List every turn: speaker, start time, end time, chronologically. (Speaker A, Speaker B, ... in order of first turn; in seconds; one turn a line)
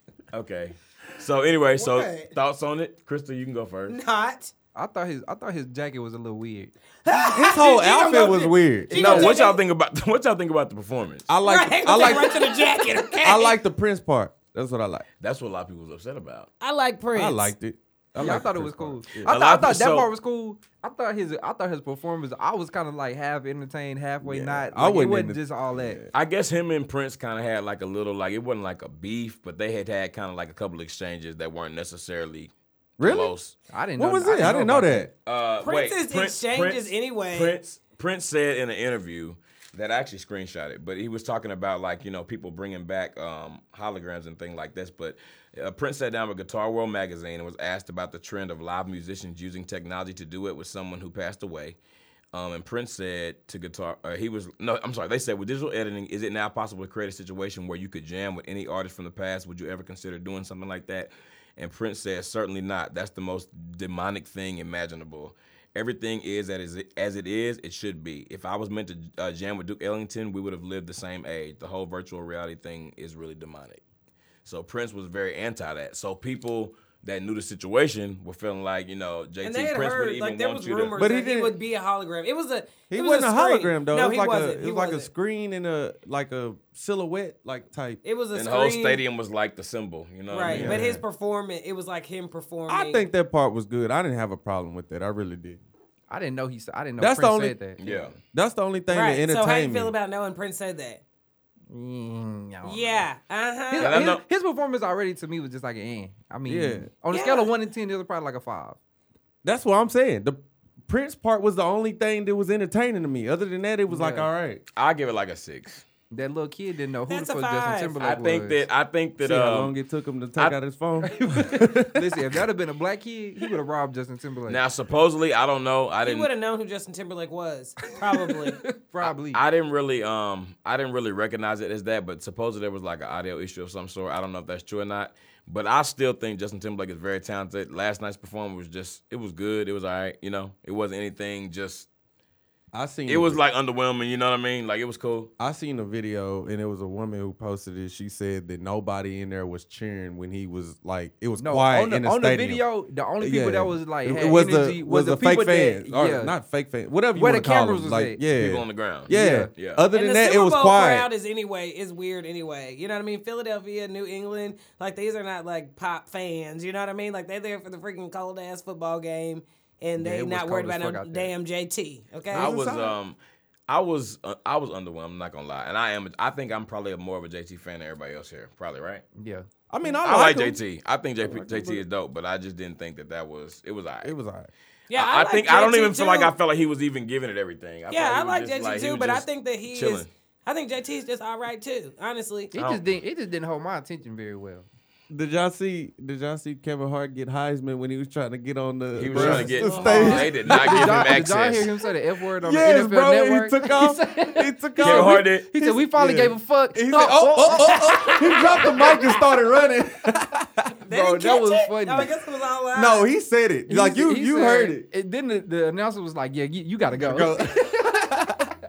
Speaker A: 0.3-4.0
Speaker B: 1.8-2.3
Speaker B: 3.9-4.5
Speaker C: 4.7-6.7
Speaker B: 7.0-9.6
Speaker D: 7.1-9.3
Speaker A: 8.9-11.3
Speaker D: 11.3-12.5
Speaker B: 11.4-13.6
Speaker D: 13.2-15.1
Speaker A: 15.2-16.5
Speaker B: 16.6-17.5
Speaker D: 17.1-19.3
Speaker C: 18.2-26.0
Speaker A: 19.2-20.1
Speaker D: 24.2-26.1
Speaker A: 26.1-33.5
Speaker D: 33.0-33.3
Speaker C: 33.7-35.1
Speaker D: 34.0-35.1
Speaker A: 35.2-51.8
Speaker B: 35.6-37.5
Speaker A: 52.3-73.8
Speaker A: 74.4-81.0
Speaker B: 79.4-85.1
Speaker D: 81.0-81.6
Speaker D: 82.9-88.0
Speaker B: 88.0-89.0
Speaker A: 88.3-90.8
Speaker B: 90.3-93.0
Speaker D: 90.4-91.0
Speaker D: 92.7-95.6
Speaker C: 96.1-97.8
Speaker D: 97.0-99.9
Speaker A: 97.8-98.2
Speaker B: 98.9-101.0
Speaker C: 101.7-103.0
Speaker B: 102.6-104.0
Speaker C: 103.7-108.8
Speaker A: 103.8-104.2
Speaker D: 106.5-106.9
Speaker B: 107.1-107.5
Speaker D: 109.4-114.6
Speaker C: 113.9-114.3
Speaker A: 114.8-115.8
Speaker C: 116.1-118.6
Speaker B: 117.1-118.0
Speaker A: 118.0-119.7
Speaker D: 119.2-122.3
Speaker C: 121.0-124.6
Speaker A: 124.5-126.3
Speaker B: 126.0-128.6
Speaker C: 128.1-129.4
Speaker A: 129.0-141.9
Speaker D: 142.7-143.4
Speaker A: 143.1-145.3
Speaker D: 145.4-152.6
Speaker C: 151.4-156.3
Speaker D: 153.2-161.1
Speaker C: 157.1-158.2
Speaker A: 158.3-159.9
Speaker C: 159.1-159.5
Speaker B: 159.9-172.5
Speaker C: 170.0-171.3
Speaker D: 172.3-173.0
Speaker A: 172.3-173.2
Speaker A: 173.7-179.0
Speaker C: 179.2-179.4
Speaker D: 179.7-180.6
Speaker A: 180.0-184.1
Speaker D: 181.2-181.8
Speaker D: 184.0-184.5
Speaker B: 184.9-186.3
Speaker A: 184.9-190.1
Speaker B: 187.9-192.5
Speaker C: 192.5-194.7
Speaker A: 192.5-192.8
Speaker D: 195.1-201.2
Speaker A: 198.9-201.7
Speaker C: 199.1-208.4
Speaker B: 199.4-200.7
Speaker D: 202.4-210.7
Speaker A: 204.8-205.5
Speaker B: 207.9-209.0
Speaker B: 210.9-213.1
Speaker C: 210.9-212.1
Speaker D: 212.7-214.9
Speaker C: 213.7-218.5
Speaker D: 216.9-217.8